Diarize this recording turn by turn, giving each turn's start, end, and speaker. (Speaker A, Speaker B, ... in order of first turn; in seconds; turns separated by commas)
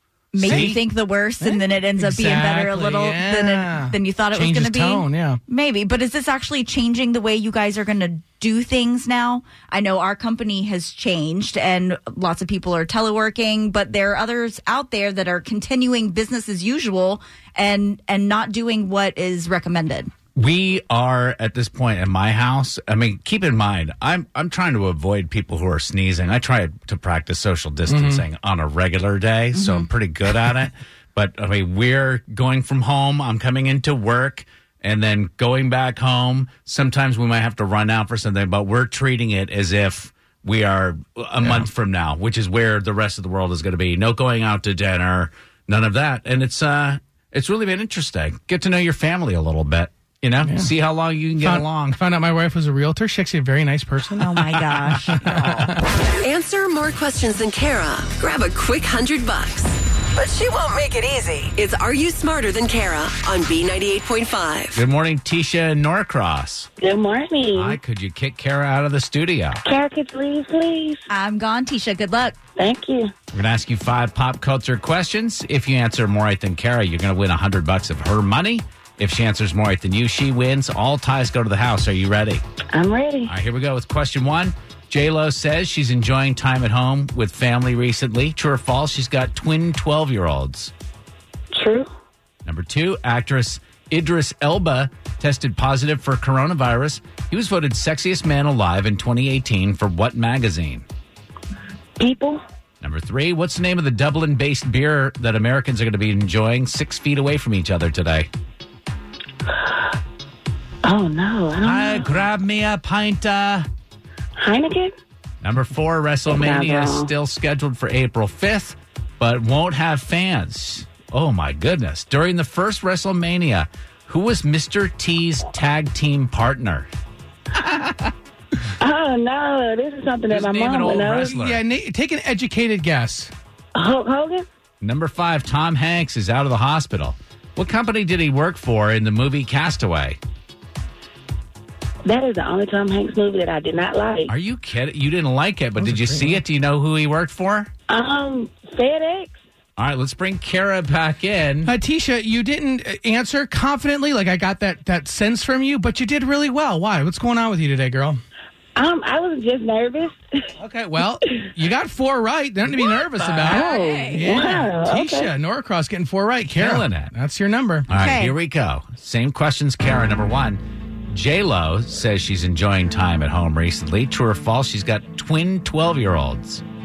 Speaker A: 0.3-20.1, Speaker B: 0.4-0.8, Speaker C: 0.4-0.7, Speaker B: 1.4-5.4, Speaker C: 20.3-52.0, Speaker B: 27.9-28.2, Speaker A: 29.6-29.9, Speaker B: 51.4-55.8, Speaker A: 54.2-55.7, Speaker D: 56.2-64.8, Speaker C: 64.7-66.7, Speaker E: 66.8-67.8, Speaker C: 67.5-69.6, Speaker E: 69.7-71.0, Speaker A: 71.1-72.3, Speaker E: 72.6-73.1, Speaker C: 73.3-82.4, Speaker E: 82.7-83.3, Speaker C: 83.2-90.7, Speaker E: 91.5-91.9, Speaker C: 92.4-100.8, Speaker E: 102.0-102.4, Speaker C: 102.8-108.3, Speaker E: 109.5-109.9, Speaker E: 110.8-112.1, Speaker C: 111.6-113.7, Speaker E: 114.4-114.9, Speaker C: 115.4-126.9, Speaker E: 116.3-117.1, Speaker C: 127.5-128.1, Speaker E: 128.8-131.3, Speaker C: 130.3-131.6, Speaker B: 131.2-133.3, Speaker E: 133.7-134.4, Speaker C: 134.8-140.2, Speaker E: 142.0-144.3, Speaker C: 144.3-147.7, Speaker B: 145.8-146.4, Speaker E: 147.9-149.3, Speaker C: 149.8-151.7, Speaker B: 151.7-158.2, Speaker E: 158.8-160.2, Speaker B: 160.6-167.9, Speaker A: 162.8-164.4, Speaker E: 163.5-165.3, Speaker C: 166.6-167.1, Speaker C: 167.9-176.6, Speaker A: 167.9-168.3